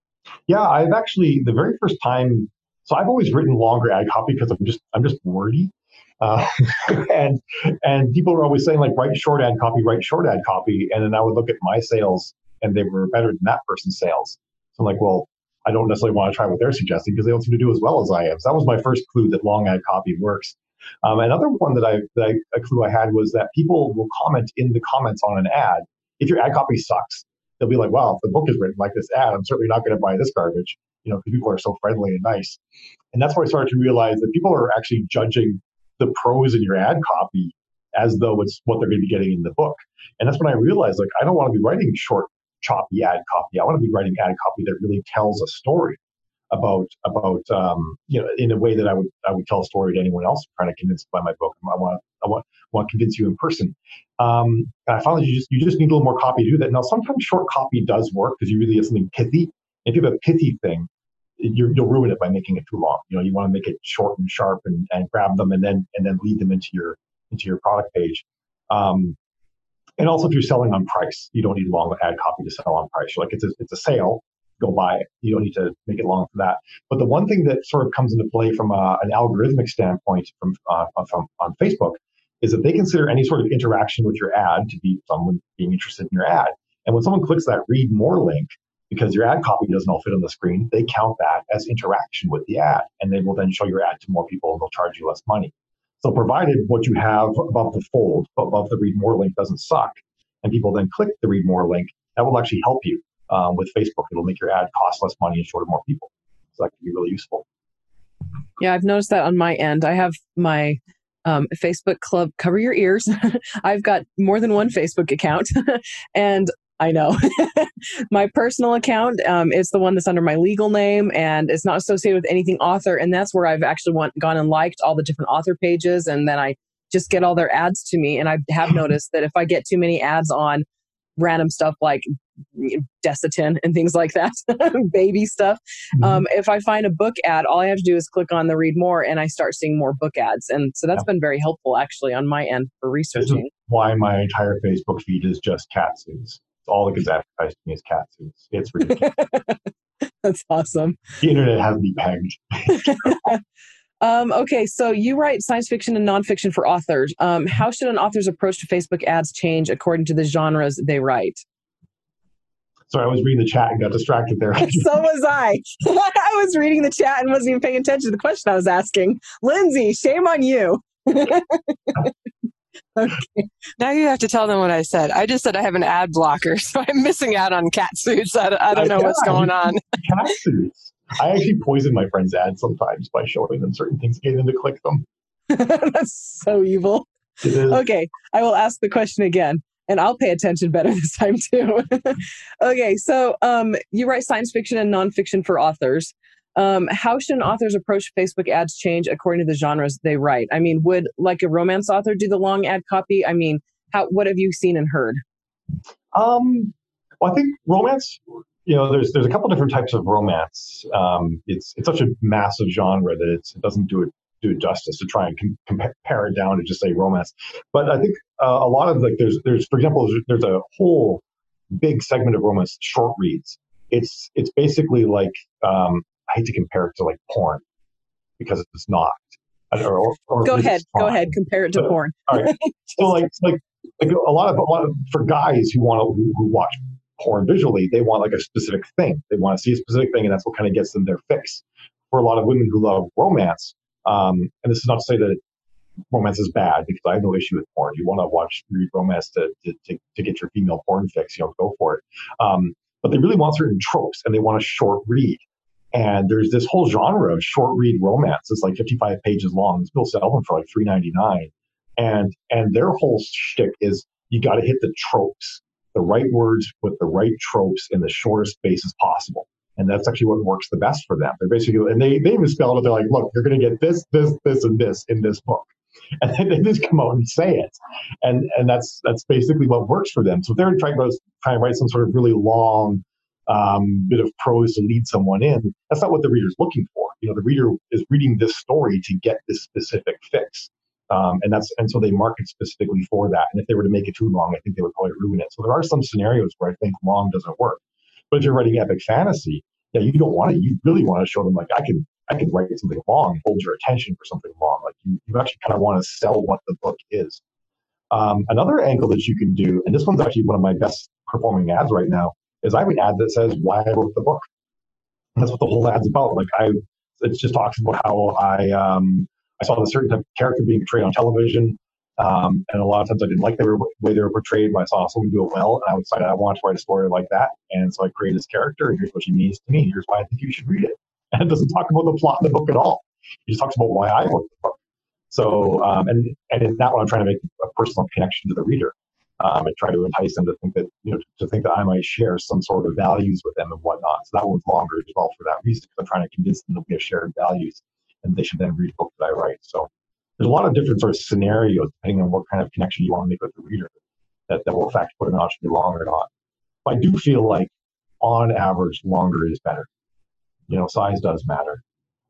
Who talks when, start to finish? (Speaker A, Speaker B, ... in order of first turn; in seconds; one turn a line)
Speaker A: 0.5-32.6
Speaker A: 33.1-46.0
Speaker A: 46.5-69.2
Speaker A: 70.0-107.4
Speaker B: 108.6-130.7
Speaker B: 131.2-143.5
Speaker A: 136.0-136.2
Speaker A: 143.2-149.1
Speaker B: 148.9-149.6
Speaker B: 150.2-151.0
Speaker A: 151.2-153.1
Speaker B: 152.7-153.4
Speaker B: 154.0-161.4
Speaker A: 162.9-165.0
Speaker B: 164.6-172.1
Speaker B: 173.0-173.5
Speaker C: 173.8-179.8
Speaker A: 178.7-185.1
Speaker B: 185.5-205.2
Speaker A: 187.4-187.8
Speaker A: 206.1-227.6
Speaker A: 228.4-245.4
Speaker B: 230.4-233.3
Speaker A: 246.1-307.4
Speaker A: 308.1-314.5
Speaker A: 315.4-334.8
Speaker A: 335.3-353.9
Speaker A: 354.5-356.3
Speaker A: 356.9-359.9
Speaker A: 360.7-361.8